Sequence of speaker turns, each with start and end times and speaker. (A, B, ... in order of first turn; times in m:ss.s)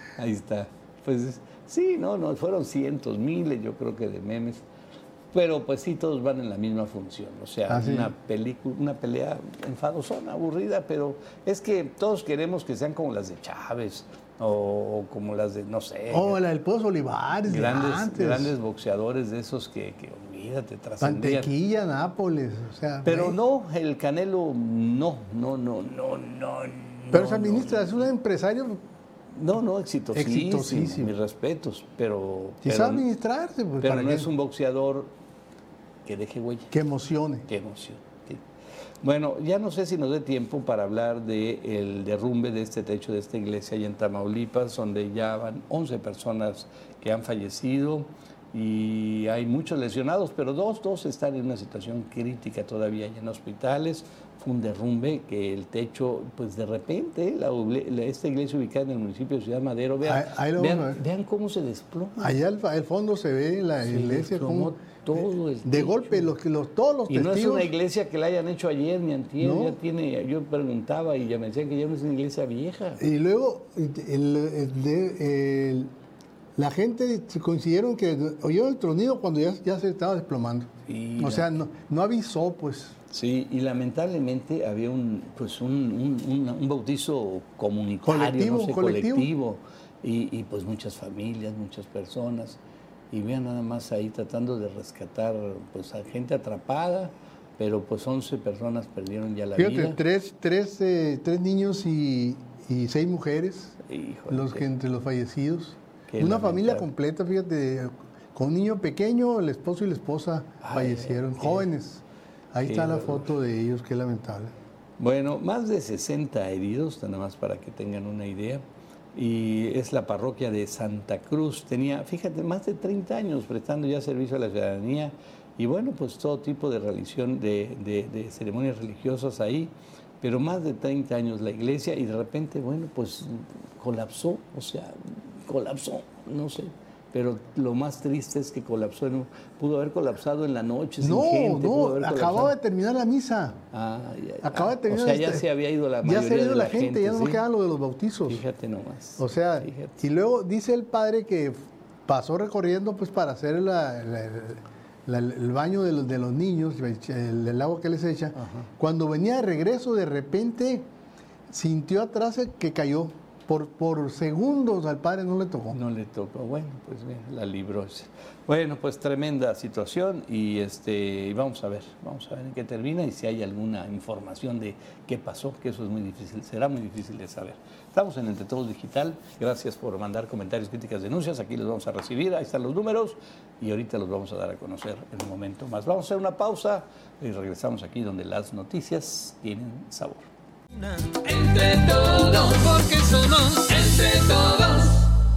0:00.2-0:04.6 A
0:05.3-0:16.4 A
0:07.7-0:08.1 B
0:16.1-0:18.5 B
0:17.5-0:21.5 A
0:21.0-0:23.4 B
0:23.0-0:28.1 A
0:27.1-0:28.8 B
0:29.3-0:33.0 A
0:30.1-0:31.1 B
0:32.6-0:34.3 B
0:33.8-0:35.1 A
0:36.0-0:36.7 A
0:36.7-0:37.5 B
0:37.5-0:38.4 A
0:39.0-1:02.3 A
1:00.0-1:01.0 B
1:02.2-1:04.8 B
1:03.8-1:06.4 A
1:05.6-1:07.7 B
1:07.1-1:13.0 A
1:09.4-1:09.8 B
1:13.0-1:15.9 B
1:16.6-1:23.0 B
1:20.9-1:21.5 A
1:23.1-1:32.6 A
1:28.0-1:29.3 B
1:33.1-1:40.0 A
1:39.6-1:43.8 B
1:43.9-1:44.6 A
1:44.3-1:54.5 B
1:46.1-1:46.9 A
1:50.6-1:51.7 A
1:52.6-1:53.2 A
1:55.0-2:22.5 A
2:21.0-2:23.6 B
2:23.7-2:27.4 A
2:24.4-2:25.4 B
2:26.0-2:28.4 B
2:28.2-2:29.9 A
2:29.2-2:40.9 B
2:38.4-2:38.7 A
2:41.5-2:45.8 B
2:45.7-3:10.3 A
3:10.7-3:15.1 C